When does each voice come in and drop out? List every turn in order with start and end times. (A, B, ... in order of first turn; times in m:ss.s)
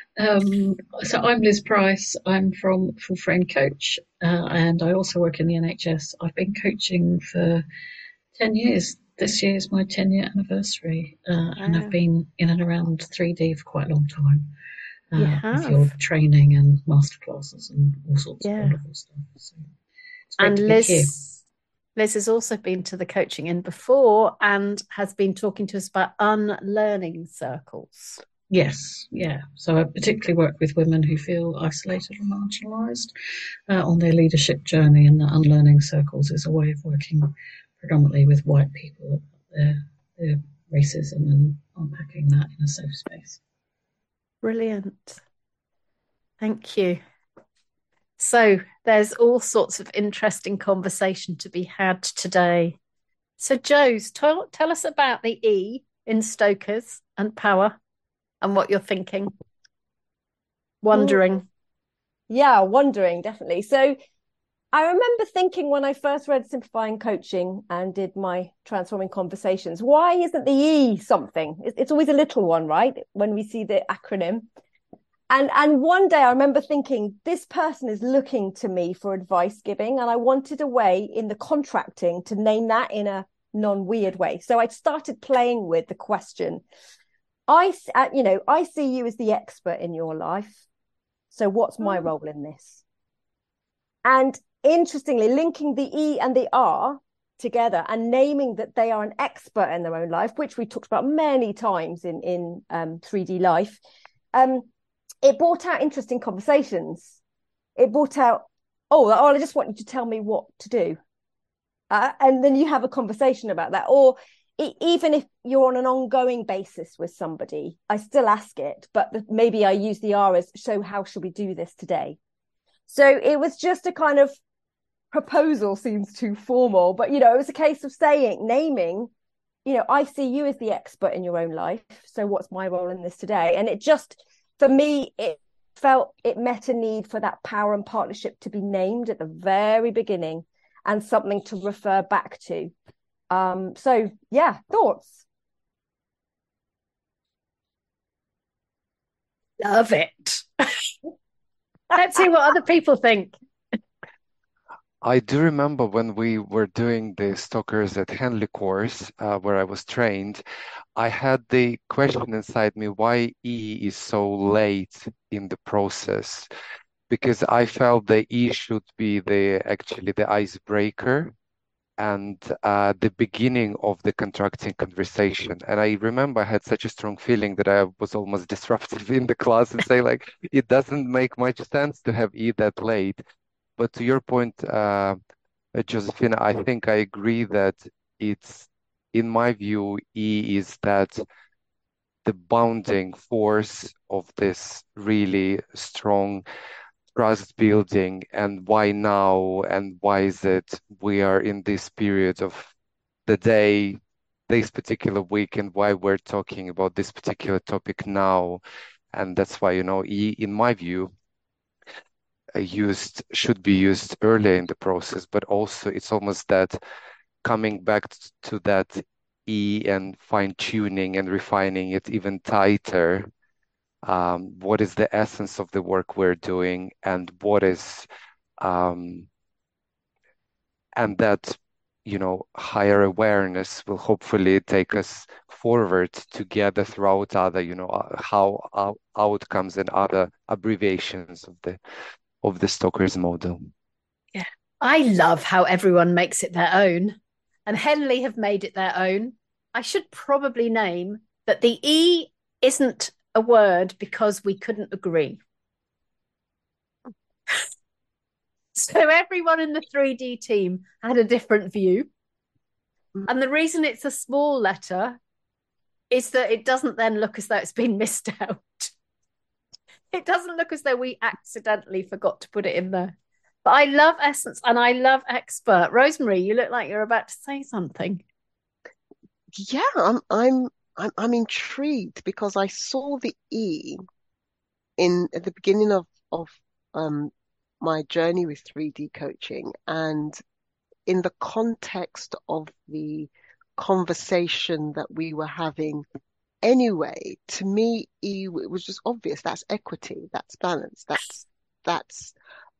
0:00.2-0:07.6 A
0:08.3-0:14.5 A
0:11.6-0:12.0 B
0:15.1-0:19.6 A
0:15.2-0:15.9 B
0:18.4-0:18.8 B
0:20.3-0:21.1 A
0:20.4-0:21.4 B
0:22.0-0:28.2 B
0:28.5-0:33.1 A
0:33.7-0:43.4 A
0:44.4-0:45.2 B
0:46.4-0:47.0 B
0:48.2-0:52.8 B
0:53.4-0:57.8 B
0:58.4-0:59.3 B
1:00.8-1:01.4 B
1:00.9-1:01.2 C
1:02.3-1:04.0 C
1:04.7-1:14.4 C
1:15.3-1:26.6 C
1:27.5-1:30.6 C
1:31.3-1:32.8 C
1:34.0-1:43.8 C
1:44.3-1:44.7 C
1:45.2-1:47.2 C
1:47.8-1:51.0 C
1:51.9-2:02.2 C
2:02.9-2:04.4 C
2:05.1-2:09.1 C
2:09.6-2:22.7 C
2:23.3-2:25.2 C
2:29.6-2:30.9 B
2:31.9-2:33.3 B
2:35.0-2:40.4 D
2:41.0-2:46.5 D
2:47.1-2:51.3 D
2:52.0-3:03.2 D
3:03.8-3:05.2 D
3:05.7-3:11.2 D
3:12.2-3:16.4 D
3:17.1-3:22.7 D
3:23.3-3:28.6 D
3:29.1-3:31.1 D
3:32.6-3:36.8 D
3:37.4-3:43.3 D
3:44.0-3:48.1 D
3:48.6-3:49.3 D
3:51.0-4:01.8 D
4:02.4-4:03.7 D
4:04.3-4:15.4 B
4:18.7-4:22.1 B
4:23.3-4:25.2 B
4:26.1-4:28.9 B
4:30.1-4:33.1 B
4:33.6-4:38.2 B
4:39.6-4:44.0 E
4:45.0-4:50.4 E
4:51.1-4:56.0 E
4:56.6-5:02.3 E